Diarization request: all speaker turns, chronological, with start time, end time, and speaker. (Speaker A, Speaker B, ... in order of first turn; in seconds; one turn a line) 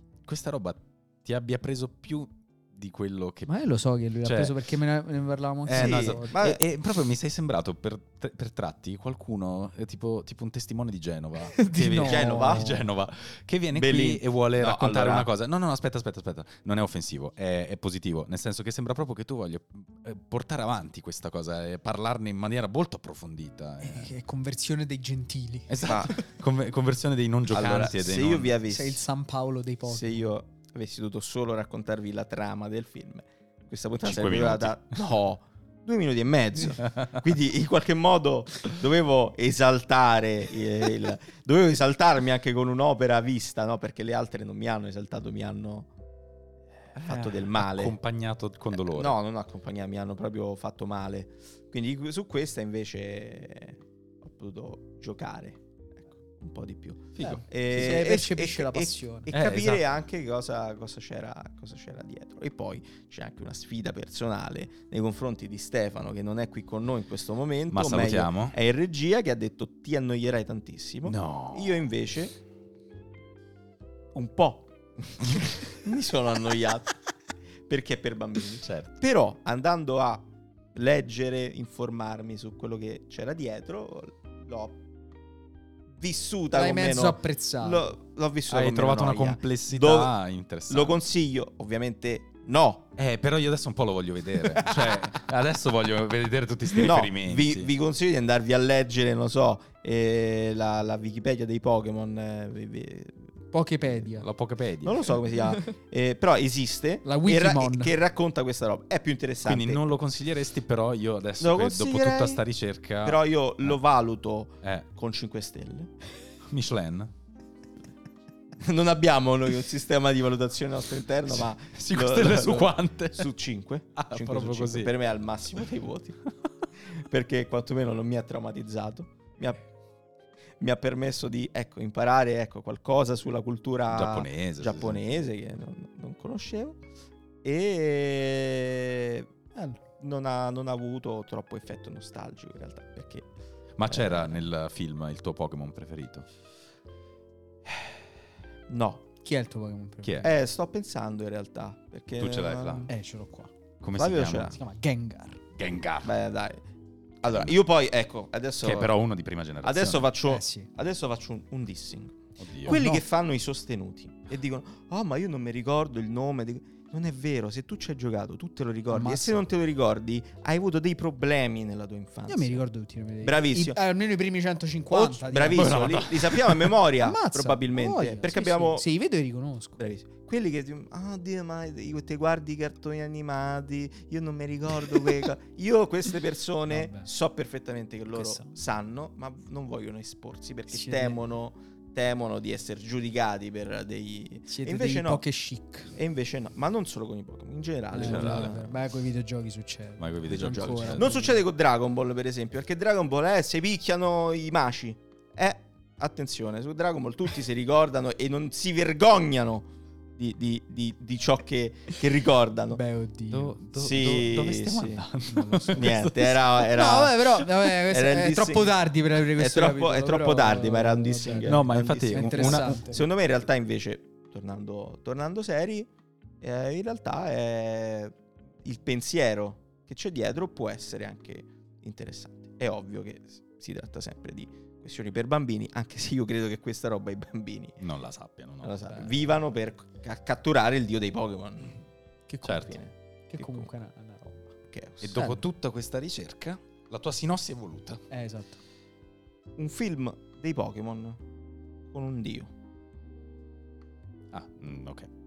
Speaker A: 0.2-3.5
Speaker B: 3.5-6.3
Speaker A: 4.2-4.6
Speaker A: 5.6-24.1
Speaker C: 5.7-6.6
Speaker B: 11.4-12.8
Speaker C: 11.9-12.8
Speaker C: 13.7-15.3
Speaker B: 23.8-26.3
Speaker A: 25.7-28.6
Speaker C: 25.8-26.2
Speaker C: 27.5-29.0
Speaker B: 28.7-30.3
Speaker C: 29.8-45.9
Speaker A: 34.0-35.0
Speaker C: 46.9-48.0
Speaker A: 47.0-49.1
Speaker C: 48.7-72.4
Speaker A: 57.1-57.4
Speaker B: 57.2-59.3
Speaker A: 59.3-59.8
Speaker A: 67.7-68.5
Speaker A: 71.0-71.9
Speaker C: 74.1-76.9
Speaker C: 77.7-84.8
Speaker A: 78.6-78.9
Speaker C: 86.0-90.1
Speaker B: 86.5-87.9
Speaker A: 88.5-91.0
Speaker C: 90.7-92.9
Speaker A: 93.0-97.7
Speaker B: 94.5-95.0
Speaker C: 96.8-103.3
Speaker B: 103.5-104.3
Speaker A: 104.1-105.2
Speaker C: 104.8-109.9
Speaker B: 107.0-107.9
Speaker A: 109.4-113.8
Speaker C: 111.4-112.4
Speaker C: 113.0-115.9
Speaker A: 116.4-117.1
Speaker C: 118.6-126.2
Speaker A: 121.3-123.3
Speaker A: 124.0-124.9
Speaker C: 126.8-129.6
Speaker C: 130.6-136.8
Speaker A: 133.9-135.1
Speaker C: 137.4-139.3
Speaker B: 139.5-139.8
Speaker C: 140.0-143.3
Speaker A: 143.8-146.3
Speaker C: 143.9-144.4
Speaker C: 148.7-149.0
Speaker B: 149.2-150.4
Speaker A: 150.0-150.3
Speaker C: 150.2-152.9
Speaker A: 152.2-152.9
Speaker B: 152.9-153.5
Speaker A: 153.8-154.6
Speaker C: 153.9-154.6
Speaker B: 154.5-155.4
Speaker A: 155.5-156.1
Speaker C: 156.0-156.6
Speaker C: 157.2-158.9
Speaker A: 157.3-157.6
Speaker A: 158.6-160.1
Speaker C: 159.6-172.6
Speaker B: 160.2-160.7
Speaker A: 162.4-162.8
Speaker B: 162.7-163.1
Speaker B: 168.9-169.5
Speaker B: 172.3-176.0
Speaker C: 173.2-173.8
Speaker C: 174.9-178.8
Speaker A: 175.5-176.7
Speaker B: 177.0-179.8
Speaker C: 179.8-195.2
Speaker B: 186.7-187.1
Speaker B: 188.1-188.5
Speaker B: 190.7-191.2
Speaker B: 194.5-195.9
Speaker C: 195.9-198.7
Speaker A: 197.9-198.8
Speaker B: 197.9-201.4
Speaker A: 200.0-201.2
Speaker C: 200.9-212.8
Speaker B: 212.7-213.6
Speaker A: 213.3-216.4
Speaker C: 213.7-215.0
Speaker C: 215.6-225.9
Speaker B: 216.7-223.0
Speaker A: 221.4-222.9
Speaker C: 226.4-237.8
Speaker A: 237.8-239.1
Speaker C: 238.6-241.8
Speaker B: 242.3-244.5
Speaker A: 242.4-242.8
Speaker C: 243.4-243.7
Speaker C: 244.7-245.4
Speaker A: 245.0-248.0
Speaker B: 248.1-248.6
Speaker C: 249.6-251.2
Speaker C: 251.9-252.5
Speaker A: 254.3-255.1